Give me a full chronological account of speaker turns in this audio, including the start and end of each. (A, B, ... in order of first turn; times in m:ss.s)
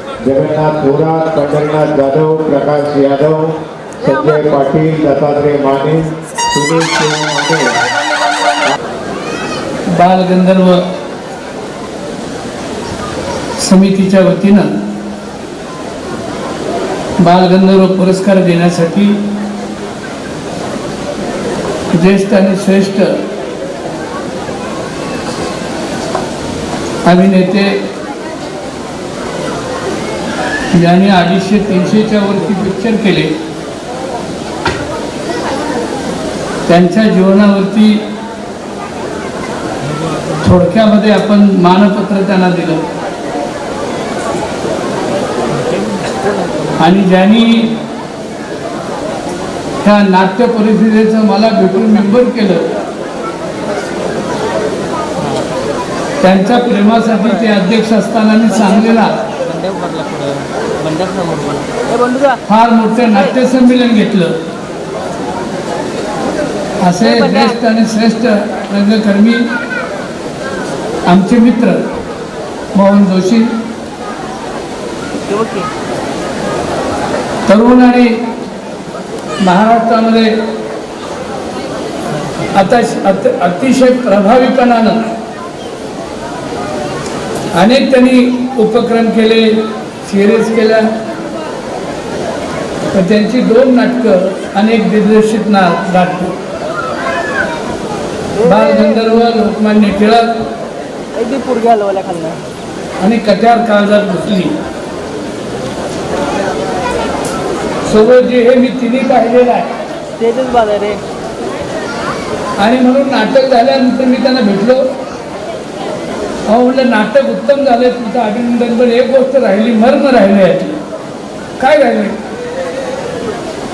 0:00.2-0:07.8 A
0:09.9-0:10.8 B
0:13.6-0:14.7 B
0:17.2-0:19.2 B
0:21.9-0:23.1 B
0:27.0-0:27.8 B
0:30.7-0:33.3 B
0:36.7-0:38.1 B
0:40.4-0:42.9 B
0:46.0-0:46.8 C
0:46.8-0:47.8 B
0:49.8-0:52.7 B
0:56.2-0:59.2 B
0:58.6-1:02.4 C
1:02.5-1:04.4 B
1:06.8-1:09.5 B
1:11.1-1:11.8 B
1:12.7-1:13.5 B
1:15.3-1:15.7 C
1:17.5-1:18.2 B
1:19.4-1:20.3 B
1:22.5-1:25.1 B
1:27.6-1:30.9 B
1:32.9-1:36.4 B
1:38.4-1:40.4 B
1:38.4-1:38.9 C
1:41.1-1:42.4 C
1:43.0-1:44.6 B
1:47.9-1:49.7 B
1:50.2-1:51.0 C
1:52.6-1:54.9 B
1:56.5-2:00.8 B
2:01.6-2:02.2 B